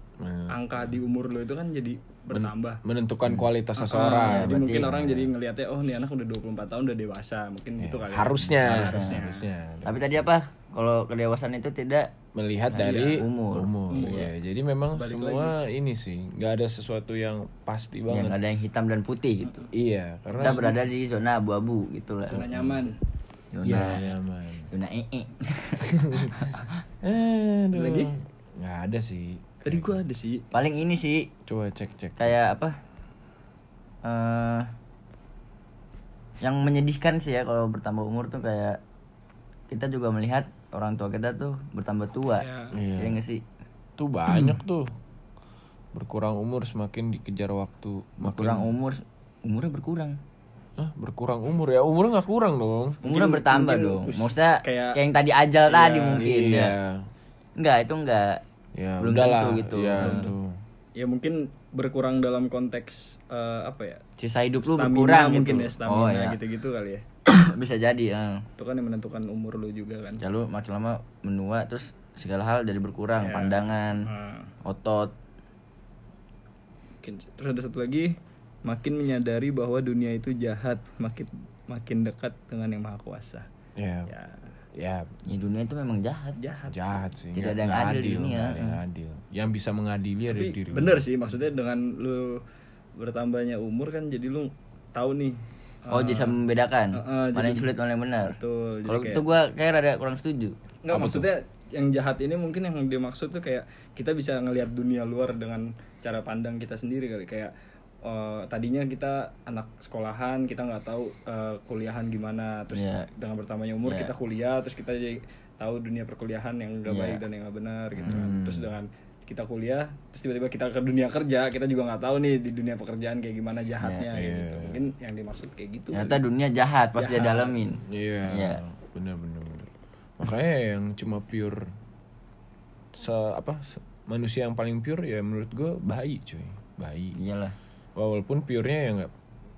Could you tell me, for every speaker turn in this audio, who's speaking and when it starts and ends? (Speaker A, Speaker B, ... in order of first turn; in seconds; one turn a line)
Speaker A: 0.2-0.9
Speaker B: 0.5-2.8
Speaker A: 2.3-5.3
Speaker B: 3.8-9.5
Speaker C: 4.2-4.9
Speaker A: 7.8-10.3
Speaker C: 8.6-9.2
Speaker C: 9.8-12.1
Speaker A: 12.3-18.4
Speaker C: 12.7-14.3
Speaker B: 12.8-13.3
Speaker B: 13.9-14.3
Speaker B: 14.9-15.6
Speaker C: 18.1-19.6
Speaker A: 19.7-20.8
Speaker C: 20.4-22.5
Speaker B: 22.3-22.9
Speaker C: 23.5-24.1
Speaker B: 23.6-24.0
Speaker A: 23.7-24.7
Speaker C: 24.7-26.7
Speaker A: 25.9-26.4
Speaker A: 27.0-30.0
Speaker B: 27.7-28.1
Speaker B: 29.6-30.4
Speaker C: 30.5-31.3
Speaker A: 31.5-32.4
Speaker C: 32.2-32.8
Speaker C: 34.0-34.7
Speaker C: 36.4-38.8
Speaker C: 39.7-43.4
Speaker B: 42.4-42.7
Speaker A: 42.7-43.2
Speaker A: 44.0-44.9
Speaker C: 44.3-44.5
Speaker A: 45.9-48.7
Speaker C: 48.2-50.2
Speaker A: 50.8-53.0
Speaker B: 53.0-55.0
Speaker C: 53.0-56.7
Speaker B: 55.7-56.3
Speaker A: 56.2-57.1
Speaker C: 57.6-58.4
Speaker A: 58.8-60.6
Speaker C: 59.0-60.3
Speaker B: 60.0-60.3
Speaker B: 61.0-64.0
Speaker C: 64.2-66.4
Speaker B: 64.6-67.0
Speaker C: 67.3-68.4
Speaker B: 68.6-70.2
Speaker C: 70.2-74.0
Speaker B: 73.2-74.5
Speaker C: 74.7-75.1
Speaker B: 77.0-78.1
Speaker B: 78.7-83.5
Speaker A: 83.8-84.1
Speaker B: 84.1-84.5
Speaker A: 84.8-85.0
Speaker C: 85.3-86.4
Speaker B: 86.4-87.1
Speaker A: 86.7-91.0
Speaker C: 87.3-88.8
Speaker B: 90.3-92.4
Speaker B: 93.0-96.4
Speaker C: 95.9-98.3
Speaker B: 96.9-97.7
Speaker B: 98.3-99.2
Speaker C: 98.9-100.6
Speaker B: 100.8-107.5
Speaker A: 100.9-101.3
Speaker B: 108.0-126.2
Speaker C: 112.7-113.0
Speaker C: 113.8-114.1
Speaker C: 116.9-117.2
Speaker A: 118.0-118.7
Speaker C: 123.8-124.1
Speaker A: 124.1-124.8
Speaker C: 125.9-128.6
Speaker B: 126.9-127.6
Speaker A: 127.9-131.6
Speaker A: 132.9-137.2
Speaker C: 137.2-137.6
Speaker A: 138.0-139.1